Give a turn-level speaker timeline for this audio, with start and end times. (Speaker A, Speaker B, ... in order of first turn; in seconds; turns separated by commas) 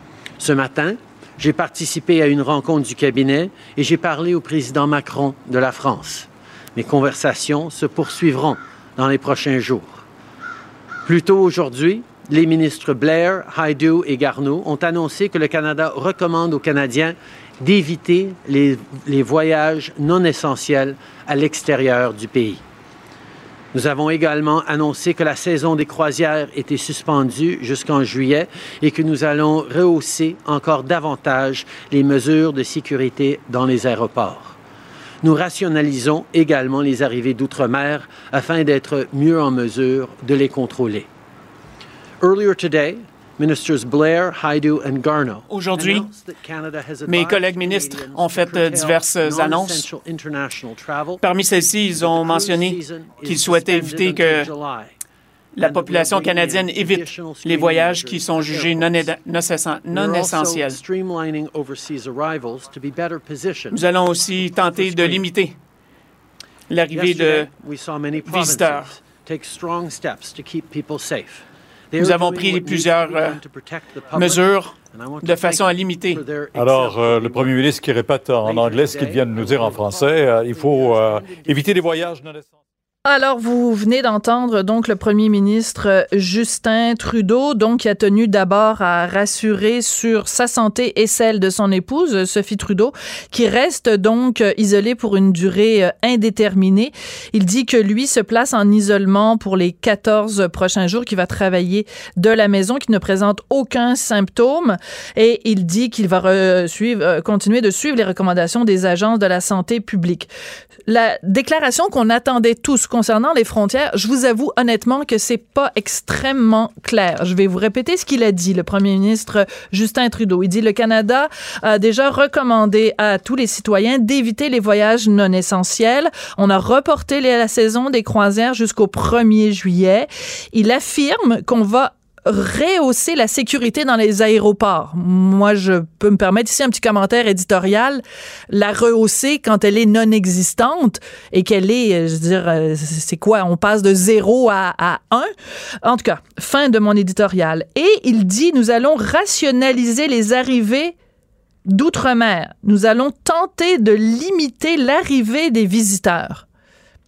Speaker A: 0.4-10.0, Speaker A: 11.0-22.6, Speaker A: 23.7-34.5, Speaker A: 35.2-41.1, Speaker A: 42.2-51.2, Speaker B: 45.5-46.1, Speaker B: 47.0-49.9, Speaker B: 51.2-54.5, Speaker A: 51.9-54.9, Speaker B: 55.5-60.8, Speaker A: 55.6-59.1, Speaker A: 59.9-63.8, Speaker B: 63.7-65.6, Speaker A: 64.6-65.2, Speaker B: 66.7-67.5, Speaker A: 66.9-82.2, Speaker B: 68.2-68.9, Speaker B: 72.0-73.4, Speaker B: 74.1-76.2, Speaker C: 76.5-82.4, Speaker D: 83.0-110.3, Speaker D: 110.9-145.3, Speaker D: 145.8-150.9, Speaker D: 151.7-156.4